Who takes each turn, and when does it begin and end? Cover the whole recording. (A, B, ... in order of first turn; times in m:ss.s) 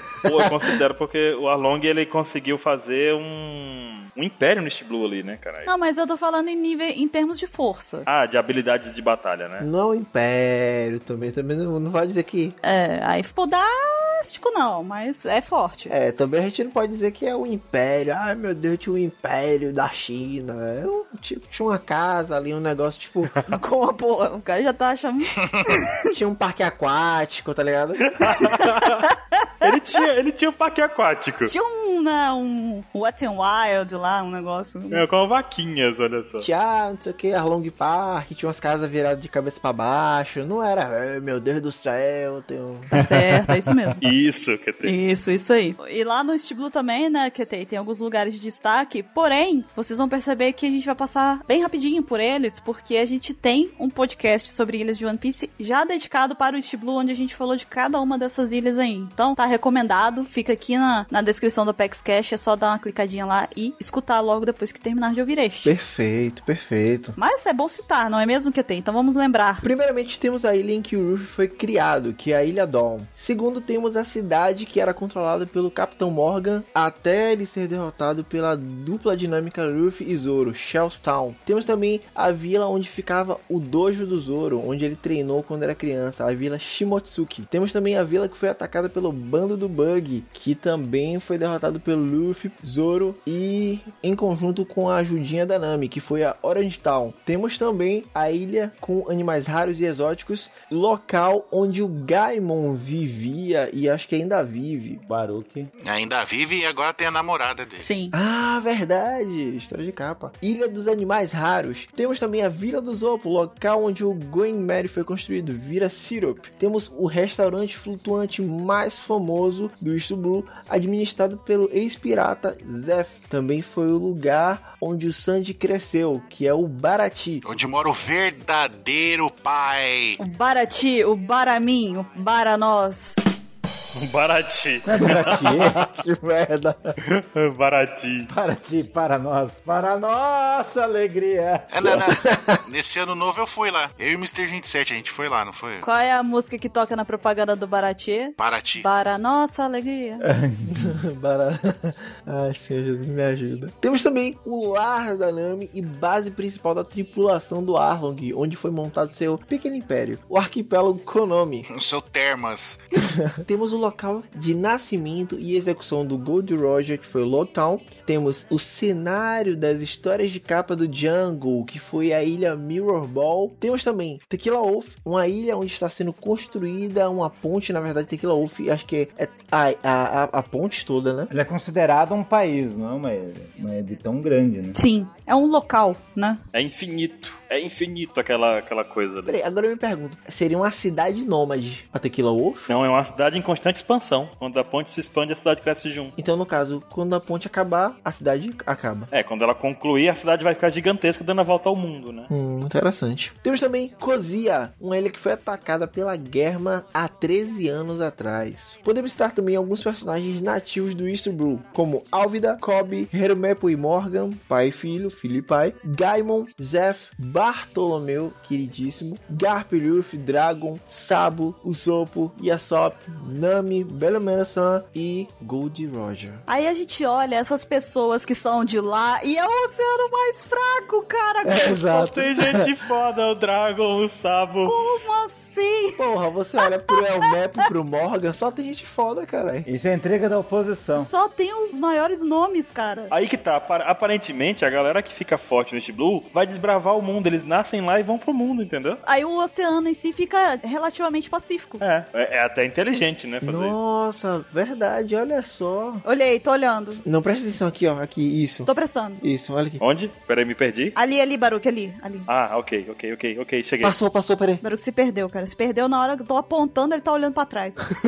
0:00.2-0:05.7 A
0:05.6-0:08.1 B
0:08.0-0:09.7 A
0:09.6-0:12.6 C
0:12.6-0:15.9 B
0:15.9-0:23.3 C
0:23.5-0:25.9 B
0:26.1-0:28.1 C
0:28.1-0:29.0 A
0:29.3-0:29.7 B
0:29.6-0:31.5 A
0:31.5-0:35.0 B
0:34.9-0:36.5 A
0:36.4-0:42.9 C
0:42.9-0:44.1 B
0:44.0-0:44.9 A
0:44.8-1:05.7 B
1:05.6-1:07.2 C
1:07.2-1:09.6 B
1:09.6-1:45.0 C
1:45.0-1:45.7 D
1:45.8-1:47.8 E
1:47.8-1:48.1 B
1:48.1-2:07.4 C
2:07.4-2:10.2 E
2:10.2-2:13.2 B
2:13.9-2:15.4 A
2:14.8-2:15.8 D
2:15.4-2:17.0 C
2:17.0-2:18.3 A
2:18.3-2:21.7 D
2:21.7-2:25.8 E
2:21.9-2:22.6 C
2:25.8-2:30.2 B
2:28.4-2:28.9 E
2:30.2-2:30.9 D
2:30.7-2:41.7 C
2:41.7-2:42.8 E
2:43.3-3:01.3 C
3:01.3-3:04.8 D
3:04.7-3:06.4 B
3:06.5-3:09.4 A
3:09.2-3:12.7 C
3:12.7-3:16.1 A
3:16.2-3:19.1 C
3:19.1-3:22.3 A
3:22.3-3:46.4 C
3:46.5-3:52.1 B
3:51.4-3:52.6 C
3:52.0-3:54.8 A
3:54.6-3:56.0 B
3:56.0-3:59.7 C
3:59.6-4:01.1 D
4:00.9-4:03.1 B
4:03.1-4:09.0 A
4:09.0-4:11.8 B
4:11.8-4:13.8 A
4:13.4-4:16.0 C
4:16.0-4:17.0 B
4:17.0-4:19.8 C
4:18.7-4:19.2 B
4:19.8-4:20.9 A
4:21.0-4:22.3 B
4:22.3-4:24.0 A
4:23.8-4:24.6 C
4:24.6-4:27.8 B